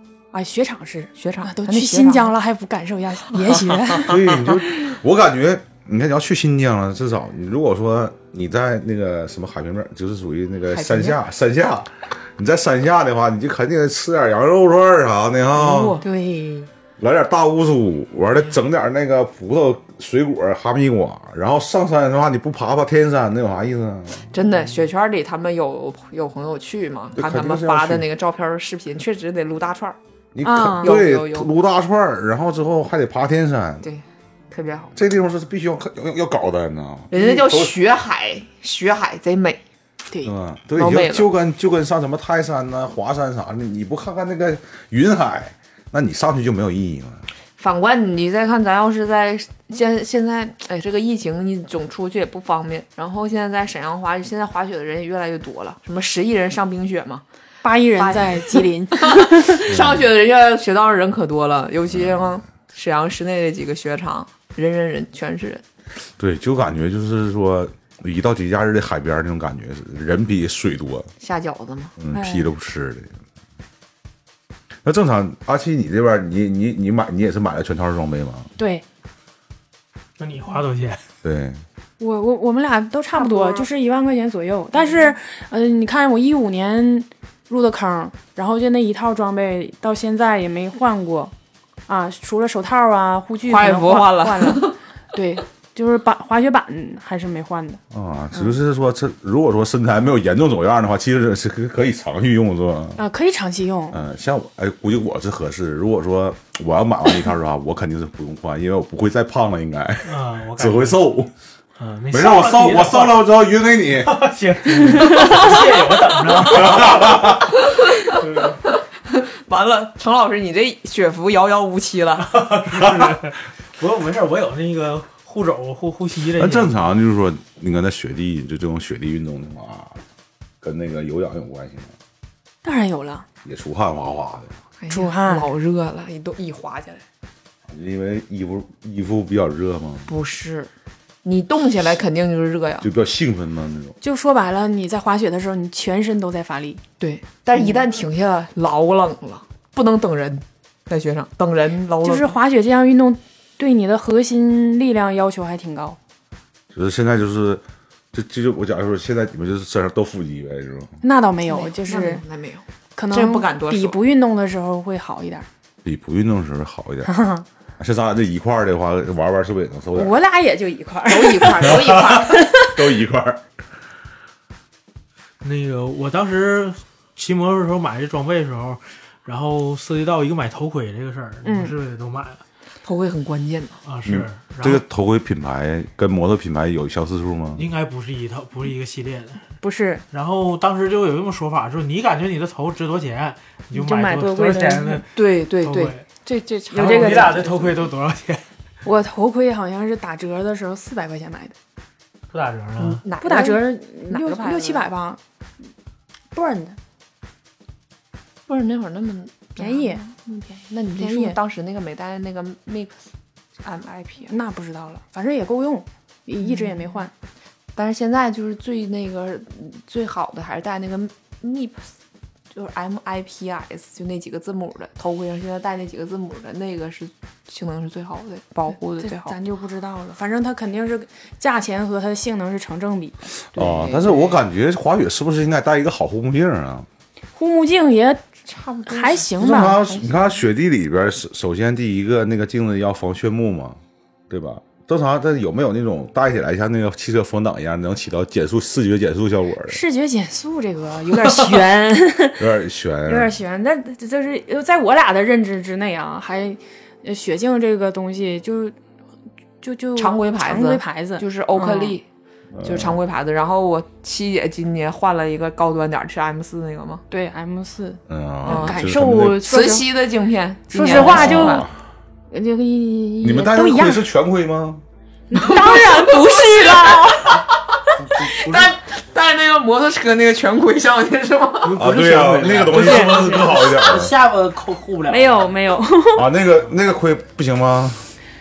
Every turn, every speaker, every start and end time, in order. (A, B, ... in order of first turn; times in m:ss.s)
0:00.3-0:04.3 A
0:01.1-0:02.3 B
0:03.4-0:04.6 B
0:04.0-0:16.0 C
0:10.7-0:11.2 B
0:15.5-0:16.0 B
0:16.0-0:16.7 A
0:17.0-0:24.3 C
0:24.3-0:30.0 B
0:27.1-0:28.0 C
0:30.3-0:33.8 C
0:30.4-0:31.0 A
0:30.8-0:31.5 B
0:33.8-0:34.9 B
0:34.9-0:37.8 C
0:37.1-0:39.6 B
0:40.2-0:47.2 C
0:40.7-0:41.3 B
0:47.6-0:57.2 B
0:57.6-0:59.6 A
0:58.0-1:05.6 B
0:59.7-1:00.0 C
1:06.2-1:11.1 C
1:11.2-1:11.9 B
1:12.0-1:13.1 C
1:12.1-1:12.5 A
1:14.8-1:18.5 C
1:18.6-1:18.8 A
1:20.2-1:21.0 D
1:21.2-1:21.6 C
1:22.0-1:31.3 A
1:23.1-1:23.7 B
1:24.8-1:25.1 B
1:31.9-1:37.8 A
1:33.4-1:34.8 B
1:37.9-1:43.0 C
1:43.0-1:44.0 A
1:43.9-1:51.3 C
1:50.0-1:51.0 D
1:51.8-1:53.4 D
1:52.1-1:54.1 C
1:53.9-1:57.3 D
1:55.0-1:56.5 B
1:56.4-1:57.5 C
1:57.4-2:02.4 B
1:58.1-1:58.6 D
2:02.2-2:06.7 D
2:02.7-2:03.2 C
2:06.4-2:10.0 C
2:10.6-2:11.9 C
2:12.6-2:13.2 A
2:13.4-2:14.5 C
2:14.8-2:17.0 B
2:14.9-2:15.5 A
2:17.7-2:20.1 C
2:20.1-2:20.7 B
2:21.2-2:22.9 B
2:22.8-2:24.0 C
2:24.0-2:26.8 A
2:27.0-2:32.3 B
2:32.0-2:36.0 A
2:36.7-2:41.0 C
2:41.0-2:42.2 A
2:41.4-2:44.0 B
2:43.0-2:45.4 A
2:45.8-2:47.1 C
2:47.0-2:47.4 A
2:47.8-2:50.1 C
2:49.9-2:52.7 A
2:51.0-2:52.5 B
2:51.6-2:53.4 C
2:55.4-3:02.4 D
3:01.4-3:01.7 A
3:02.8-3:03.8 B
3:03.8-3:04.8 D
3:04.0-3:07.6 C
3:07.6-3:09.4 D
3:09.6-3:10.0 A
3:10.1-3:16.0 D
3:13.7-3:15.0 A
3:15.1-3:17.8 B
3:16.7-3:17.4 A
3:16.7-3:18.4 D
3:18.8-3:21.5 A
3:22.3-3:23.0 D
3:22.8-3:24.9 B
3:23.2-3:25.2 A
3:26.3-3:26.8 A
3:28.5-3:33.0 B
3:29.6-3:31.4 A
3:33.6-3:34.3 B
3:34.3-3:37.1 A
3:36.4-3:37.1 B
3:37.7-3:41.9 B
3:42.5-3:49.3 B
3:49.0-3:53.2 A
3:53.5-3:56.9 C
3:53.5-3:54.4 B
3:57.4-3:58.2 A
3:58.5-4:00.1 B
3:58.9-3:59.8 A
3:59.4-4:03.8 C
4:04.3-4:09.8 C
4:09.7-4:12.4 A
4:12.4-4:13.3 C
4:13.0-4:18.7 A
4:19.6-4:22.0 A
4:20.0-4:22.0 B
4:22.5-4:23.0 C
4:22.6-4:27.0 B
4:27.1-4:29.8 A
4:28.1-4:29.4 C
4:28.4-4:28.8 B
4:29.4-4:31.6 B
4:30.7-4:31.6 A
4:30.8-4:31.7 C
4:32.3-4:34.0 A
4:33.2-4:34.8 C
4:35.3-4:37.4 A
4:35.3-4:41.8 B
4:38.2-4:38.7 D
4:41.6-4:45.5 D
4:41.8-4:44.1 C
4:42.7-4:43.2 A
4:45.1-4:46.3 A
4:46.1-4:48.0 C